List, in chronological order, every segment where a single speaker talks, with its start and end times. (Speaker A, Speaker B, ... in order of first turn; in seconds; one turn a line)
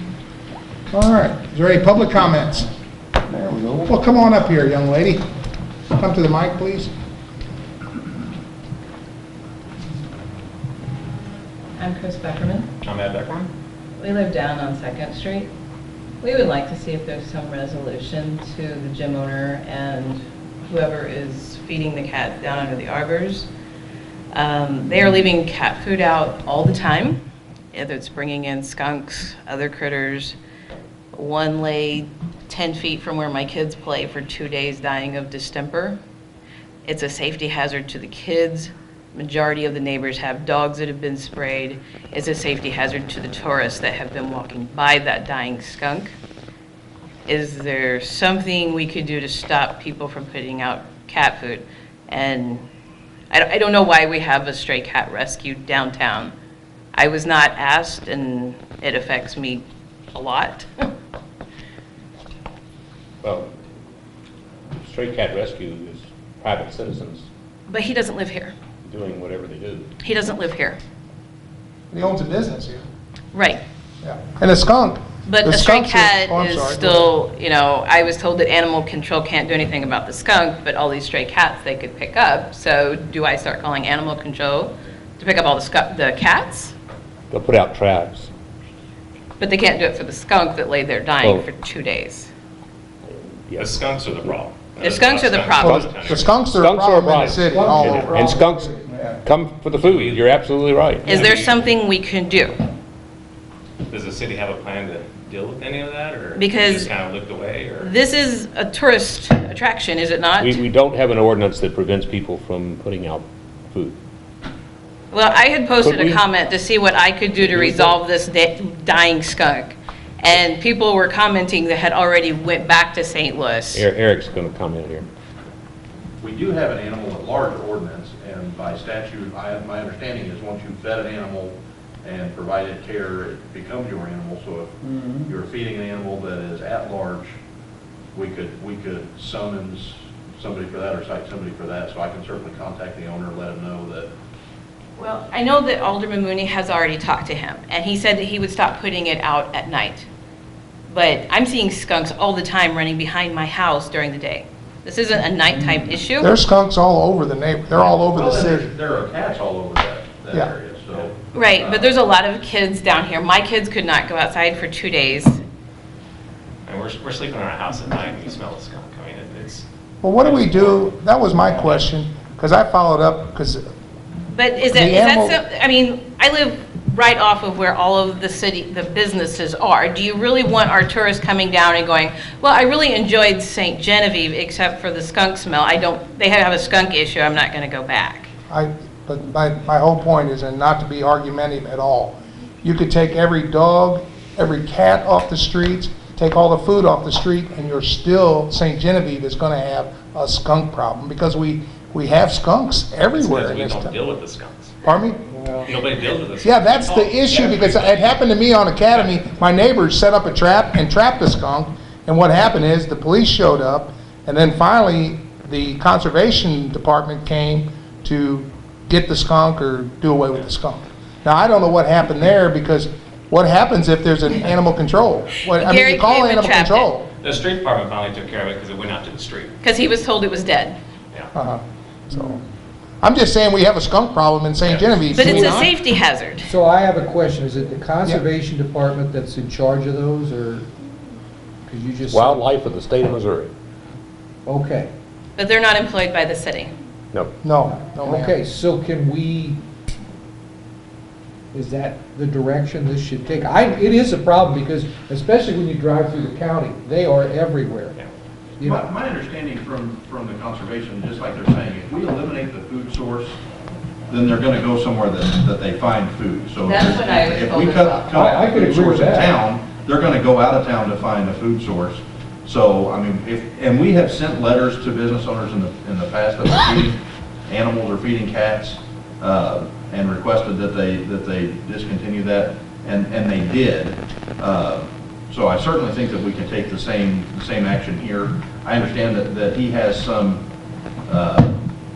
Speaker A: 0.9-2.7
Speaker A: 3.8-5.2
Speaker A: 5.9-6.9
Speaker B: 11.8-12.7
Speaker C: 12.8-13.5
Speaker B: 14.0-15.5
Speaker B: 16.2-23.5
Speaker B: 24.3-30.4
Speaker B: 31.1-36.0
Speaker B: 36.9-46.1
Speaker B: 47.3-52.6
Speaker B: 53.3-56.3
Speaker B: 56.9-60.9
Speaker D: 63.2-63.5
Speaker D: 64.8-67.3
Speaker B: 67.7-68.5
Speaker D: 68.8-69.9
Speaker B: 70.0-70.8
Speaker A: 71.9-72.9
Speaker B: 73.3-73.6
Speaker A: 74.0-77.1
Speaker B: 75.2-86.7
Speaker D: 87.3-88.3
Speaker B: 89.4-92.3
Speaker C: 93.5-96.5
Speaker B: 94.8-95.8
Speaker A: 95.6-98.2
Speaker D: 96.5-101.1
Speaker E: 97.5-98.8
Speaker A: 98.9-99.2
Speaker C: 99.8-100.2
Speaker C: 101.0-101.6
Speaker B: 101.1-102.6
Speaker C: 103.9-107.9
Speaker B: 106.3-106.9
Speaker B: 107.8-110.6
Speaker D: 110.4-114.0
Speaker B: 115.1-123.9
Speaker D: 115.8-116.2
Speaker D: 117.5-118.0
Speaker D: 123.7-125.1
Speaker F: 126.2-137.3
Speaker F: 138.2-144.1
Speaker B: 145.0-150.1
Speaker B: 150.9-156.3
Speaker A: 156.2-158.7
Speaker F: 157.8-161.9
Speaker B: 161.3-165.4
Speaker C: 166.7-169.7
Speaker A: 170.0-173.7
Speaker C: 170.2-170.9
Speaker C: 171.6-171.8
Speaker B: 174.3-188.3
Speaker A: 174.7-175.4
Speaker A: 188.5-203.9
Speaker C: 203.2-204.8
Speaker A: 204.8-205.2
Speaker D: 205.3-205.7
Speaker C: 205.7-208.2
Speaker A: 206.4-227.1
Speaker C: 208.9-209.2
Speaker B: 225.6-226.9
Speaker C: 227.2-229.6
Speaker B: 229.6-230.8
Speaker A: 231.3-232.3
Speaker A: 233.0-235.7
Speaker C: 234.6-235.2
Speaker B: 235.1-236.5
Speaker E: 236.4-240.7
Speaker E: 241.7-242.5
Speaker D: 242.1-243.5
Speaker E: 244.4-244.9
Speaker B: 245.4-246.7
Speaker D: 247.1-247.4
Speaker A: 247.4-248.3
Speaker E: 247.6-249.6
Speaker E: 251.5-258.0
Speaker E: 258.6-258.8
Speaker F: 258.6-263.4
Speaker F: 264.1-290.4
Speaker B: 266.6-268.2
Speaker D: 268.1-269.3
Speaker E: 268.2-268.9
Speaker F: 291.1-291.5